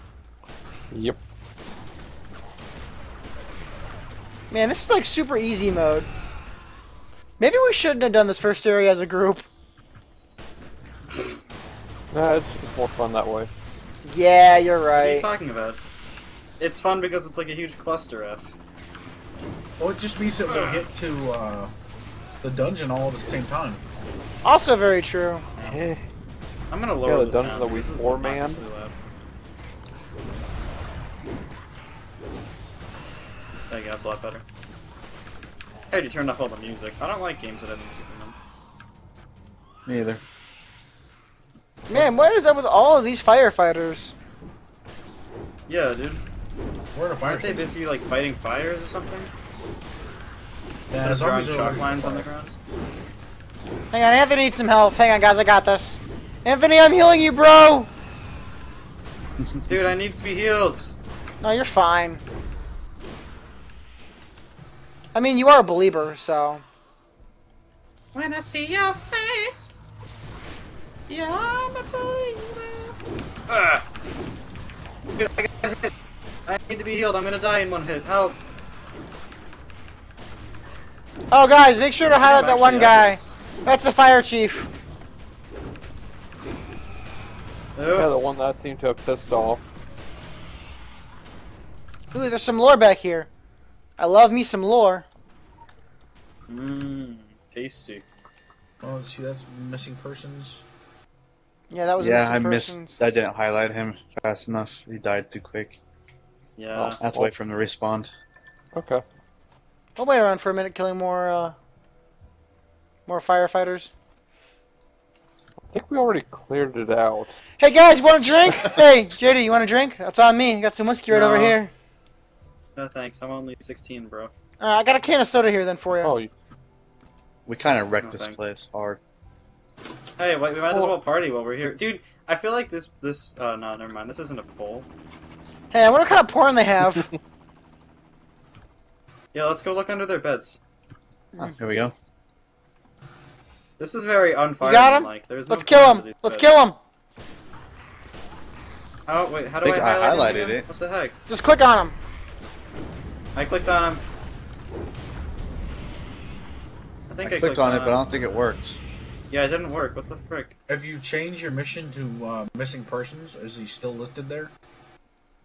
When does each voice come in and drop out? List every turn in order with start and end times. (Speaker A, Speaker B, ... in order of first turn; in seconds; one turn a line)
Speaker A: 0.9-1.2
Speaker B: 4.5-6.1
Speaker B: 7.4-9.5
Speaker A: 12.1-13.5
Speaker B: 14.0-15.2
Speaker C: 14.9-15.8
Speaker C: 16.6-18.5
Speaker D: 19.8-21.7
Speaker C: 20.5-20.8
Speaker D: 22.4-23.8
Speaker B: 24.4-25.4
Speaker A: 25.6-26.0
Speaker C: 26.7-28.9
Speaker A: 27.0-28.6
Speaker C: 33.7-34.4
Speaker C: 35.9-38.3
Speaker E: 39.9-40.2
Speaker B: 41.9-44.1
Speaker C: 45.7-46.2
Speaker D: 46.9-47.7
Speaker C: 47.2-49.3
Speaker D: 50.9-52.3
Speaker C: 51.0-52.5
Speaker B: 53.9-57.9
Speaker E: 59.4-59.7
Speaker C: 59.7-60.9
Speaker B: 61.4-62.2
Speaker B: 65.1-66.6
Speaker C: 68.1-69.8
Speaker C: 71.1-72.9
Speaker C: 73.5-73.8
Speaker C: 75.1-75.9
Speaker C: 76.5-78.4
Speaker B: 81.3-84.7
Speaker C: 82.1-83.1
Speaker C: 87.8-88.1
Speaker A: 87.9-89.6
Speaker B: 92.1-93.3
Speaker B: 94.0-95.0
Speaker C: 96.5-98.0
Speaker D: 98.8-100.6
Speaker B: 101.7-103.0
Speaker E: 102.0-105.8
Speaker C: 106.6-107.0
Speaker A: 106.7-107.3
Speaker E: 107.0-108.1
Speaker A: 108.7-109.0
Speaker B: 110.0-111.5
Speaker B: 113.0-113.9
Speaker A: 115.7-117.4
Speaker B: 117.6-121.7
Speaker C: 121.1-121.6
Speaker C: 122.8-124.3
Speaker B: 124.6-126.1
Speaker A: 126.0-126.3
Speaker E: 127.5-129.0
Speaker C: 128.0-128.4
Speaker C: 130.2-134.9
Speaker B: 135.7-137.1
Speaker C: 139.3-140.6
Speaker E: 141.4-141.9
Speaker C: 143.8-146.5
Speaker B: 144.6-146.8
Speaker C: 149.1-151.1
Speaker E: 149.6-150.7
Speaker B: 151.3-151.9
Speaker C: 153.3-154.0
Speaker C: 157.1-158.0
Speaker E: 157.2-158.8
Speaker C: 159.3-160.5
Speaker D: 160.7-164.5